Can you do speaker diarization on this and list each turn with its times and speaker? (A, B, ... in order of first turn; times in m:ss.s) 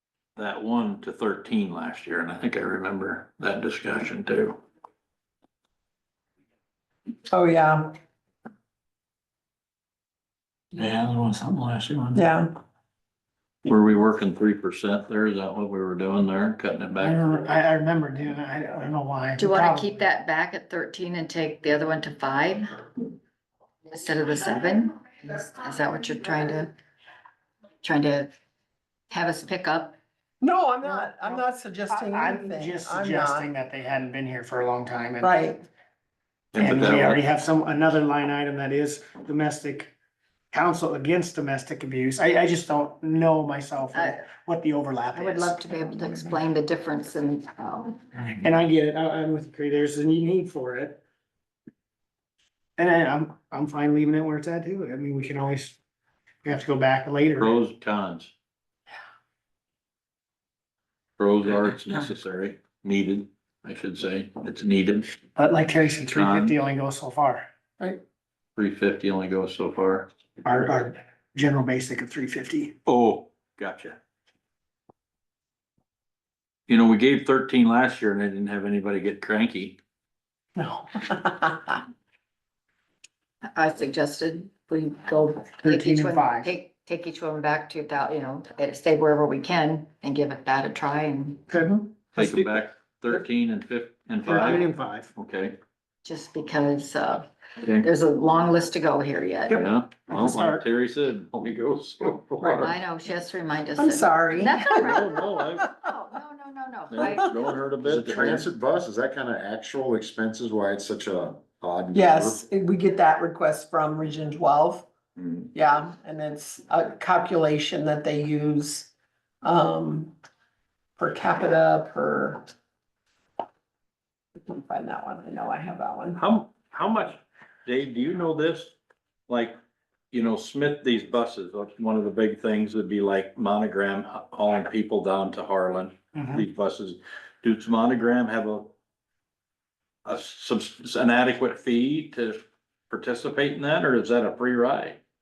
0:00.4-0:04.6 A
0:07.3-0:07.9 B
0:10.8-0:11.6 C
0:11.4-0:12.1 A
0:12.1-0:12.5 B
0:13.6-0:17.2 A
0:17.0-0:19.9 C
0:19.4-0:23.1 D
0:23.9-0:26.7 D
0:27.8-0:28.3 D
0:29.1-0:30.0 D
0:30.4-0:33.5 B
0:30.9-0:35.3 C
0:35.2-0:35.6 B
0:36.5-0:37.2 A
0:36.5-0:39.9 C
0:40.5-0:46.2 C
0:43.9-0:44.3 D
0:45.1-0:48.0 D
0:48.2-0:51.0 C
0:52.8-0:55.8 C
0:56.4-0:57.6 C
0:57.4-0:58.3 A
1:01.2-1:05.2 A
1:05.4-1:07.4 C
1:06.1-1:06.6 A
1:08.6-1:10.1 A
1:10.4-1:12.8 C
1:12.8-1:14.0 A
1:16.7-1:19.8 A
1:20.6-1:21.8 B
1:23.4-1:31.4 D
1:25.6-1:26.5 C
1:31.5-1:32.5 C
1:32.1-1:35.6 A
1:34.2-1:35.1 C
1:36.0-1:39.6 D
1:37.6-1:37.9 A
1:39.5-1:40.6 C
1:39.5-1:42.7 A
1:42.4-1:45.2 D
1:43.8-1:45.7 B
1:44.7-1:45.8 A
1:45.8-1:47.3 D
1:46.9-1:48.5 A
1:47.8-1:52.4 E
1:51.9-1:54.8 B
1:55.2-1:55.5 A
1:55.5-1:58.9 B
1:59.4-2:00.1 B
2:01.0-2:02.5 B
2:04.4-2:06.2 B
2:06.2-2:08.7 A
2:09.3-2:09.6 A
2:10.1-2:18.7 A
2:16.1-2:16.4 C
2:20.0-2:22.4 A
2:22.9-2:25.0 A